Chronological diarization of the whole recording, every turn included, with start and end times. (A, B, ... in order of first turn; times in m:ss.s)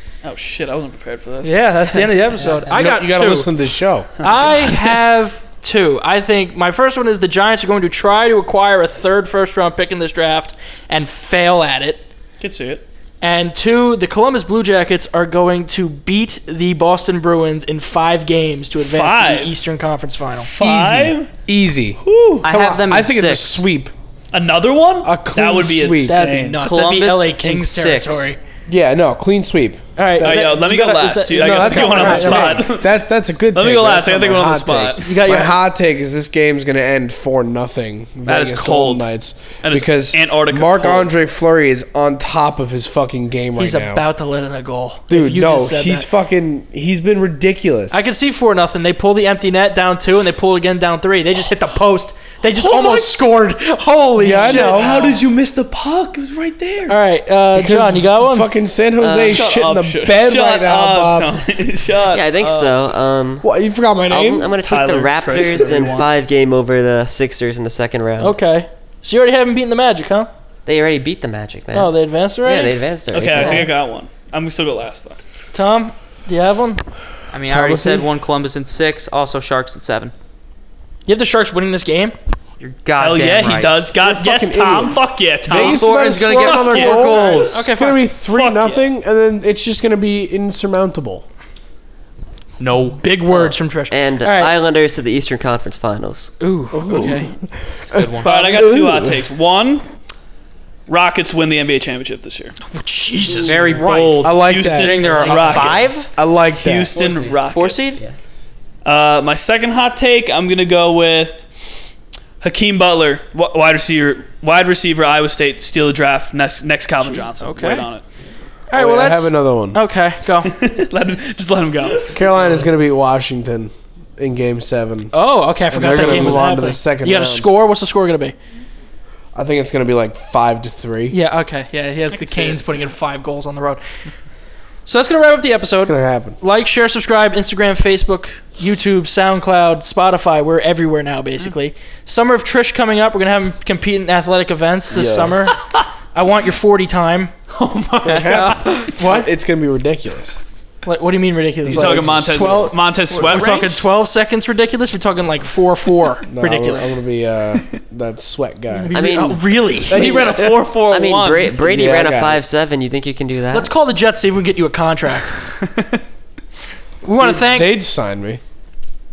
0:00.2-0:01.6 A
0:01.4-0:03.5 B
0:02.7-0:04.1 C
0:04.2-0:12.0 B
0:04.2-0:05.0 A
0:12.4-0:12.8 A
0:13.2-0:20.5 B
0:18.8-0:19.6 A
0:20.4-0:21.3 A
0:20.6-0:23.9 C
0:22.0-0:22.5 A
0:22.4-0:23.6 D
0:24.3-0:26.6 A
0:25.0-0:26.2 C
0:26.1-0:28.4 B
0:26.6-0:28.3 D
0:28.7-0:30.4 C
0:30.0-0:32.6 B
0:30.2-0:32.9 A
0:31.3-0:44.0 C
0:33.5-0:35.2 A
0:35.0-0:35.6 B
0:38.2-0:39.1 A
0:39.6-0:41.1 A
0:43.6-0:46.1 B
0:45.1-0:48.1 C
0:47.9-0:55.2 B
0:52.5-0:53.2 A
0:54.2-0:55.1 C
0:54.2-0:56.9 A
0:56.9-0:58.5 B
0:57.5-1:01.4 C
0:59.0-0:59.5 E
0:59.2-1:02.8 A
1:02.1-1:03.5 E
1:03.4-1:04.6 C
1:04.1-1:08.4 E
1:04.6-1:06.1 A
1:08.2-1:10.3 B
1:10.6-1:13.6 E
1:11.7-1:12.8 B
1:13.1-1:15.2 A
1:13.4-1:13.6 B
1:15.5-1:16.8 B
1:17.3-1:20.1 D
1:17.5-1:18.0 B
1:21.1-1:22.1 B
1:22.6-1:23.8 D
1:23.0-1:27.2 A
1:23.9-1:31.2 C
1:25.5-1:27.6 D
1:27.5-1:28.0 B
1:28.2-1:28.8 A
1:32.6-1:33.0 D
1:32.8-1:34.5 B
1:33.3-1:36.3 E
1:36.4-1:37.3 B
1:36.7-1:39.2 C
1:36.8-1:37.2 A
1:37.9-1:38.3 D
1:38.2-1:38.8 B
1:38.2-1:39.8 A
1:40.9-1:42.6 A
1:42.7-1:43.6 B
1:43.3-1:44.0 E
1:43.4-1:46.1 D
1:43.7-1:47.0 C
1:44.2-1:48.0 A
1:44.9-1:46.0 E
1:46.9-1:47.4 E
1:47.4-1:48.0 D
1:48.8-1:58.0 A
1:57.4-1:57.9 B
1:58.7-2:00.5 B
1:58.7-1:59.8 C
2:00.4-2:02.4 A
2:02.0-2:05.1 C
2:05.1-2:08.3 B
2:05.7-2:07.5 C
2:09.3-2:11.2 C
2:11.1-2:13.8 B
2:12.1-2:12.6 A
2:14.8-2:25.6 B
2:15.8-2:16.4 C
2:24.9-2:25.4 C
2:26.1-2:27.3 B
2:27.5-2:28.8 A
2:28.0-2:30.4 C
2:28.3-2:29.3 B
2:30.8-2:36.9 B
2:31.6-2:32.6 C
2:31.7-2:33.8 A
2:36.3-2:39.2 C
2:38.7-2:40.2 B
2:38.9-2:43.7 E
2:39.9-2:41.6 A
2:40.0-2:40.4 C
2:41.6-2:42.4 C
2:43.5-2:45.4 B
2:45.6-2:46.0 A
2:47.0-2:47.8 B
2:47.2-2:48.4 C